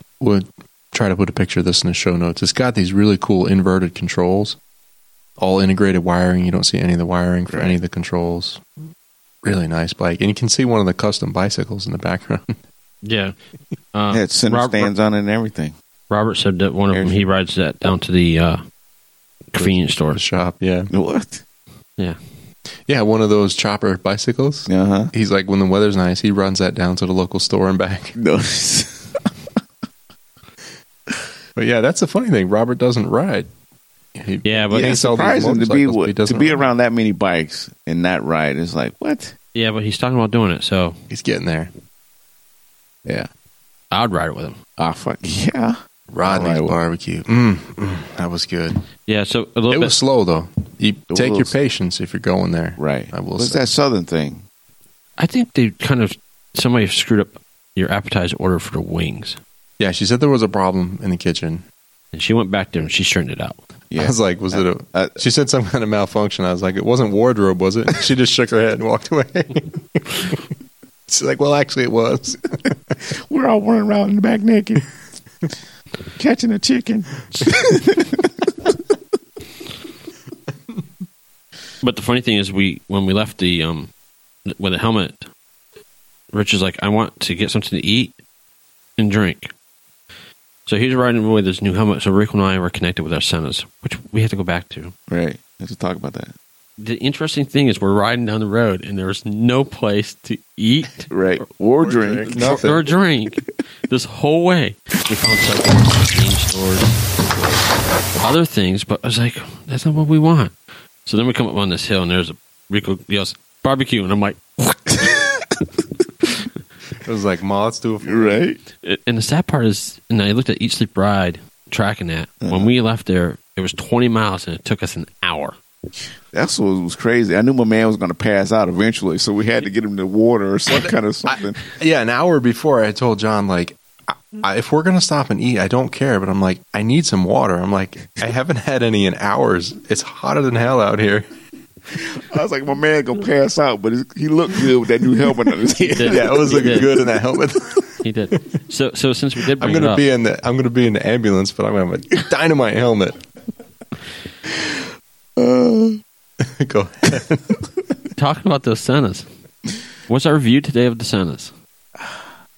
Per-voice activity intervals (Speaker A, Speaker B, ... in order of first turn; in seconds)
Speaker A: 0.2-4.6, 5.4-8.6, 9.4-12.5, 20.1-20.9, 22.9-28.1, 31.6-33.5, 34.1-36.7, 41.1-41.7, 46.1-48.8, 49.7-53.6, 59.8-61.6, 64.0-70.4, 71.1-73.0, 101.8-102.8, 117.0-118.4, 130.7-141.2, 145.9-148.0, 149.6-153.2, 156.4-157.6
Speaker B: 7.5-7.8, 14.1-15.7, 16.9-17.2, 20.9-21.4, 24.7-25.1, 28.1-29.3, 34.7-39.4, 44.8-46.8, 51.1-51.5, 52.8-54.4, 63.9-65.2, 73.1-74.9, 76.2-78.3, 95.1-96.3, 101.1-102.8, 115.0-115.4, 118.0-118.6, 122.4-122.7, 126.3-131.6, 141.9-146.8, 155.4-156.0
Speaker C: 13.0-13.3, 13.9-14.9, 16.1-18.6, 19.5-20.2, 34.4-35.0, 39.5-41.0, 43.9-44.6, 49.1-50.0, 55.2-59.4, 62.1-63.6, 81.8-83.9, 84.5-85.3, 86.3-88.2, 89.0-89.5, 90.7-94.9, 96.8-101.1, 102.3-107.0, 108.2-115.1, 118.8-125.5, 145.9-146.9, 148.0-150.0, 158.2-159.3, 160.1-161.5